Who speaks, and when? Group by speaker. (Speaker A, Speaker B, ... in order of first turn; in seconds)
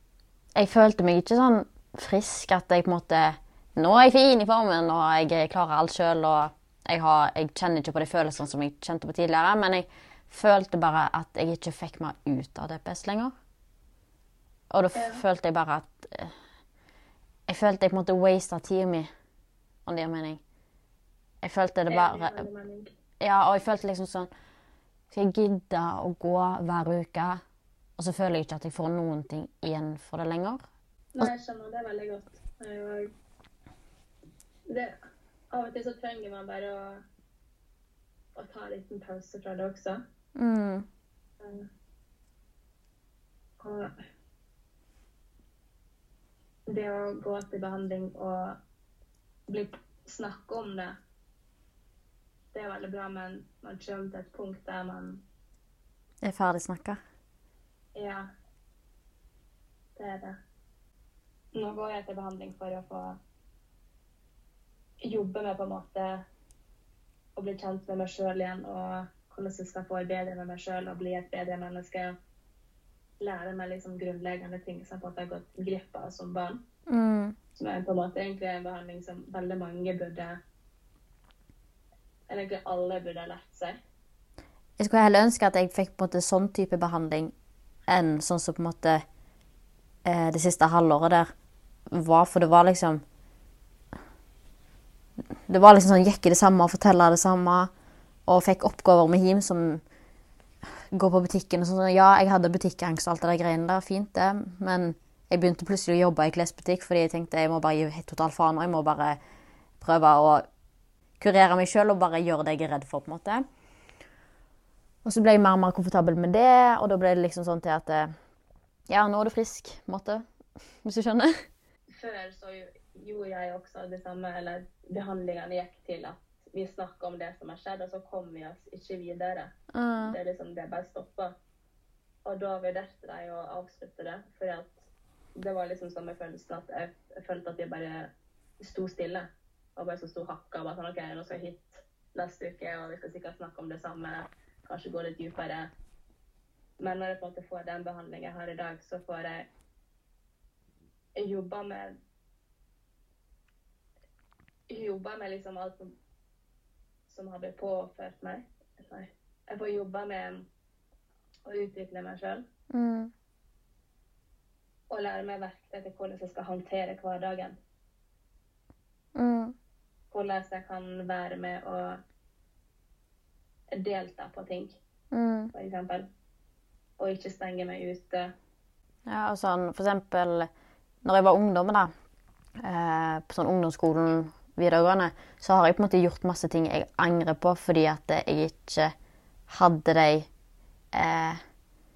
Speaker A: 0.6-13.3, 14.7-16.4, 17.5-19.1, 19.9-20.4, 21.4-22.5, 23.2-24.3, 25.1-27.4, 28.0-30.6, 40.4-40.9, 56.2-57.0, 76.9-77.4, 84.8-87.3, 87.9-89.0, 90.0-91.3, 91.9-93.0, 95.5-97.7, 98.3-99.8, 100.9-109.2, 109.8-110.5, 111.2-113.5, 115.0-118.1, 118.9-120.2, 120.8-121.5, 129.7-130.2, 162.7-163.1, 169.2-169.6, 175.1-175.5, 179.1-180.5, 181.0-181.9, 182.6-188.9, 189.5-190.3, 190.9-191.4
Speaker B: 14.9-15.2, 21.9-22.9, 31.1-33.1, 34.7-35.0, 35.5-37.0, 38.4-40.0, 41.4-41.7, 43.6-43.9, 46.7-48.6, 49.5-51.0, 52.5-55.2, 58.0-58.2, 60.0-60.4, 61.5-63.2, 65.0-66.2, 67.4-72.2, 73.2-76.6, 77.6-80.4, 82.3-83.8, 121.9-131.3, 132.3-134.8, 135.4-145.7, 146.8-149.5, 151.2-152.0, 154.7-155.9, 157.1-160.4, 161.5-162.4, 164.9-167.6, 170.1-172.0, 173.8-174.8, 175.5-176.1, 177.0-178.3